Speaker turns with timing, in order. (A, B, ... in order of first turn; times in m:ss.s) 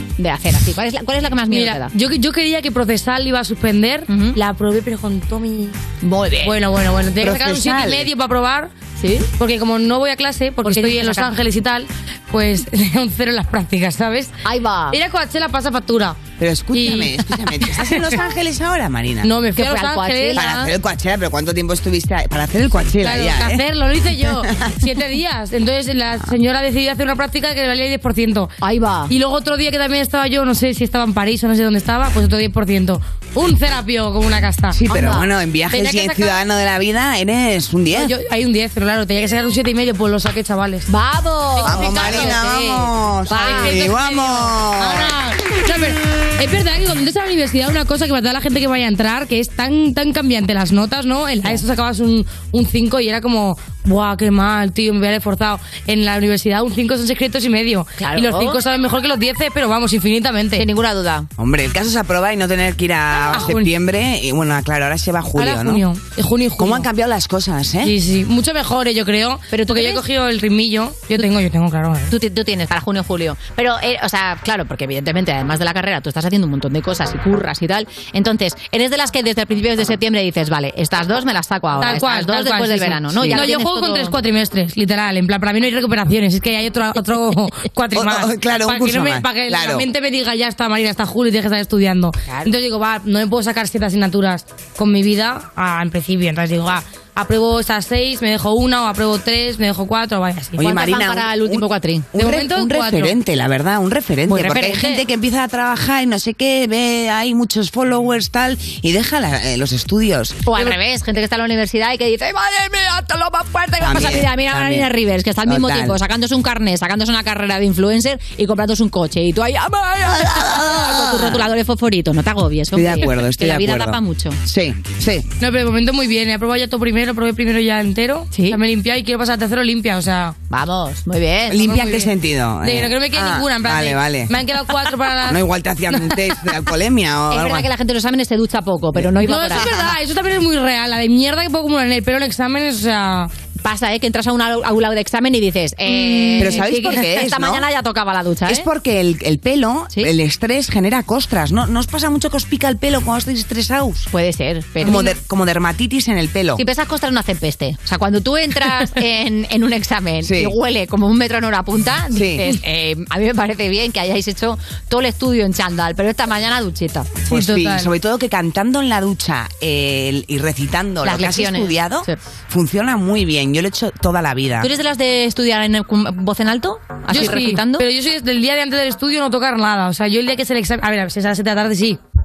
0:00.2-0:01.9 A
0:01.5-0:05.8 B
0:04.1-0:04.4 A
0:06.0-0:06.6 A
0:06.4-0:08.7 B
0:07.2-0:08.1 C
0:09.0-0:09.3 A
0:09.4-0:14.3 B
0:10.6-0:11.3 A
0:14.4-0:15.0 A
0:14.9-0:16.2 B
0:16.4-0:19.3 C
0:16.7-0:17.2 B
0:19.2-0:20.7 B
0:19.5-0:20.7 A
0:20.3-0:23.6 C
0:23.0-0:28.5 B
0:24.2-0:24.7 C
0:28.6-0:29.1 A
0:29.1-0:34.8 B
0:34.7-0:38.1 C
0:34.9-0:35.3 A
0:35.7-0:36.4 B
0:37.9-0:40.9 B
0:40.9-0:43.8 A
0:41.6-0:42.6 B
0:41.6-0:45.2 C
0:43.3-1:00.6 B
0:58.0-0:58.6 A
1:00.6-1:01.3 A
1:01.4-1:05.8 C
1:03.3-1:03.7 B
1:05.4-1:06.9 B
1:06.6-1:07.9 C
1:07.8-1:12.1 B
1:09.5-1:10.0 A
1:12.1-1:24.2 A
1:21.8-1:40.6 B
1:23.2-1:23.4 C
1:27.9-1:29.9 C
1:40.6-1:50.7 C
1:40.6-1:42.1 A
1:42.2-1:43.2 B
1:44.3-1:45.0 A
1:44.6-1:44.9 B
1:50.5-2:04.4 A
1:53.8-1:54.9 C
1:55.4-1:56.0 C
2:00.2-2:01.4 C
2:02.7-2:05.2 C
2:05.4-2:10.3 B
2:08.3-2:08.6 A
2:10.5-2:11.9 A
2:11.5-2:14.3 C
2:11.7-2:12.1 B
2:12.6-2:16.2 B
2:15.3-2:17.7 C
2:17.3-2:19.8 A
2:18.9-2:19.9 C
2:19.2-2:23.3 B
2:23.6-2:28.7 A
2:25.9-2:27.0 B
2:26.4-2:27.6 C
2:28.4-2:34.1 C
2:34.1-2:35.1 A
2:34.8-2:36.6 C
2:34.8-2:35.1 B
2:36.6-2:47.2 A
2:40.2-2:40.5 C
2:42.1-2:42.4 C
2:47.3-2:47.9 B
2:47.3-2:54.7 C
2:51.0-2:52.2 A
2:54.6-2:57.8 A
2:57.1-3:02.0 B